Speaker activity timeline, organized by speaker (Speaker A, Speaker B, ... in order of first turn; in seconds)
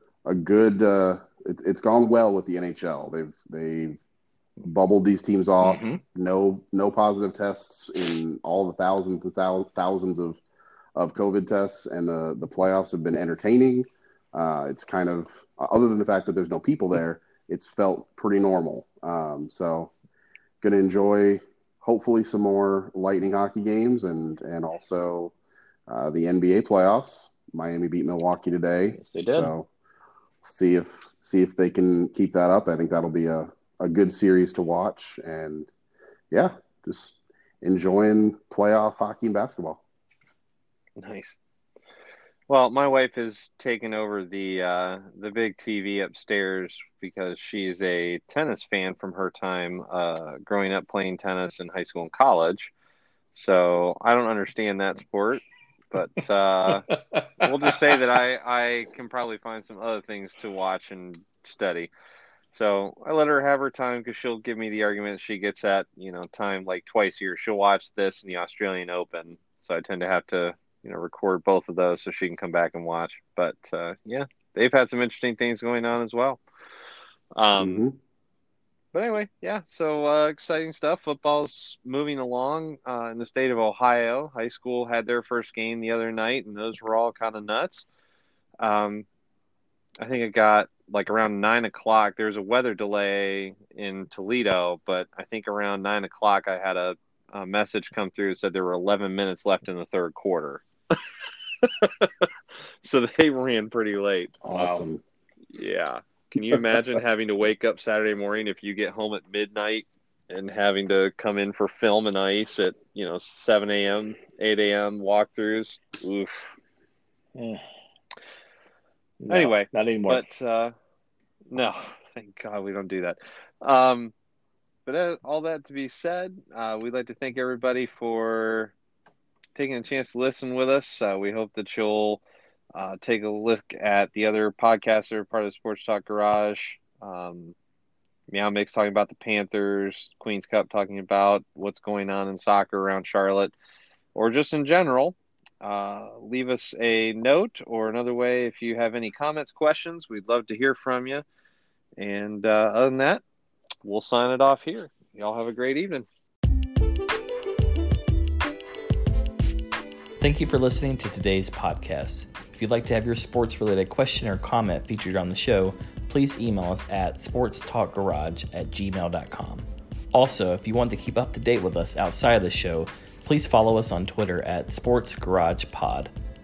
Speaker A: 0.2-4.0, 4.6-10.4, 10.9-19.9, 20.6-25.3, 25.9-29.7, 30.4-35.7, 36.3-39.8, 77.6-78.0, 104.5-105.0
Speaker B: 5.6-6.0, 28.9-29.5, 57.1-57.5, 104.5-104.8, 117.3-117.6, 119.2-120.2
Speaker C: 41.0-41.4, 42.5-52.7, 53.3-56.9, 57.4-61.9, 62.5-76.4, 77.3-77.8, 78.9-87.8, 88.6-89.0, 90.0-101.0, 101.6-102.3, 102.8-104.5, 105.5-116.5, 119.3-120.7, 121.5-124.1, 124.8-128.7, 129.5-132.2, 132.7-137.5, 138.3-143.5, 144.1-151.2, 152.0-153.2, 153.8-156.1
Speaker D: 160.2-176.1